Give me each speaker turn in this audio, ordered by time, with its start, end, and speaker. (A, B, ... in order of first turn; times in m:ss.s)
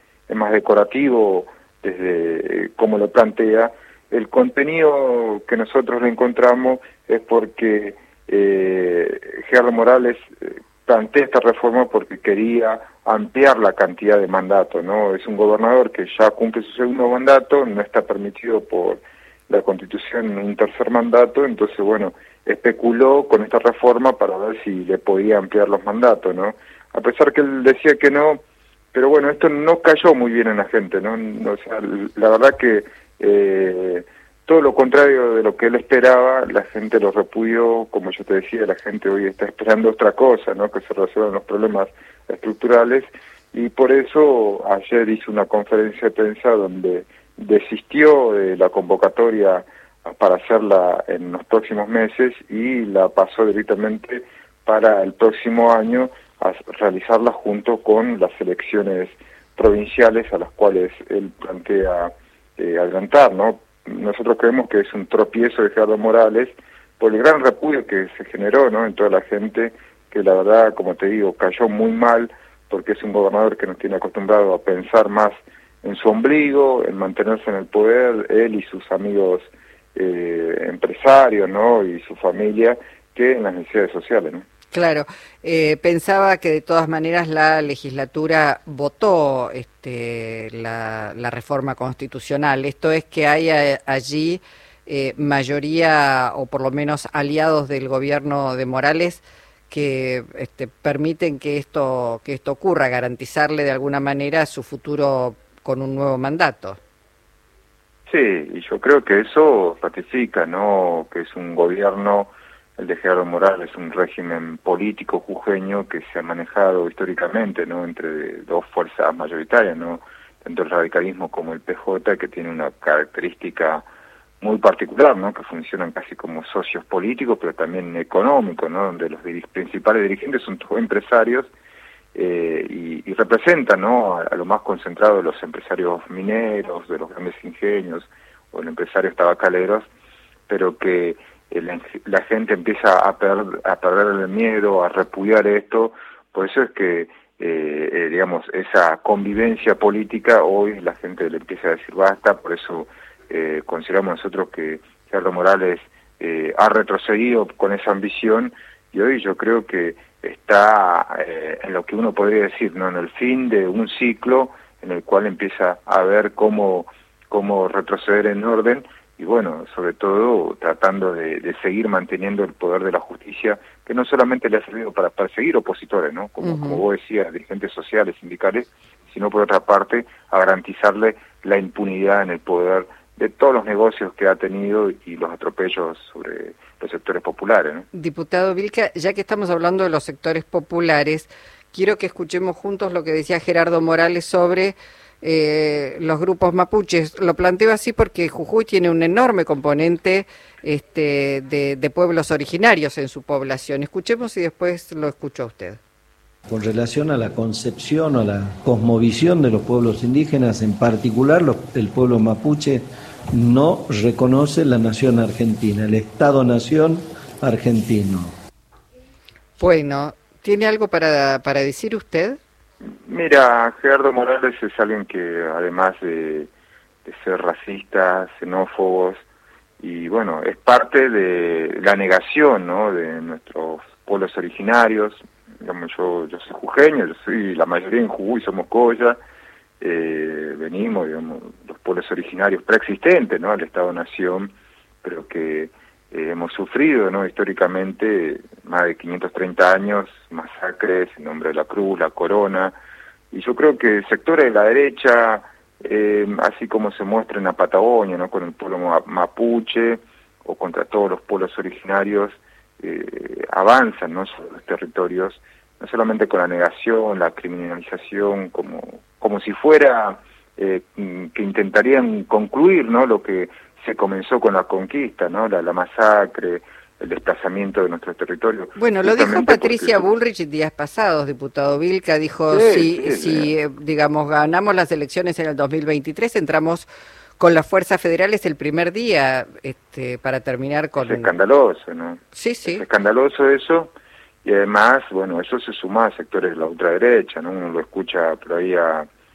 0:00.3-0:28.4 A
0:28.9-1:24.5 A
1:24.7-1:46.8 B
1:48.1-2:03.8 A
2:04.4-2:11.5 A
2:12.1-2:19.9 A
2:20.5-3:07.9 A
2:56.4-2:56.8 B
3:07.9-3:25.8 B
3:26.5-3:38.3 C
3:39.6-3:42.4 B
3:43.0-3:46.5 A
3:47.0-3:49.2 A
3:49.8-3:59.2 A
3:59.8-4:04.5 A
4:05.0-4:12.7 A
4:13.3-4:40.1 A
4:38.8-4:46.9 B
4:42.5-4:43.5 A
4:47.4-4:51.3 B
4:51.0-4:59.1 A
4:52.3-4:52.8 B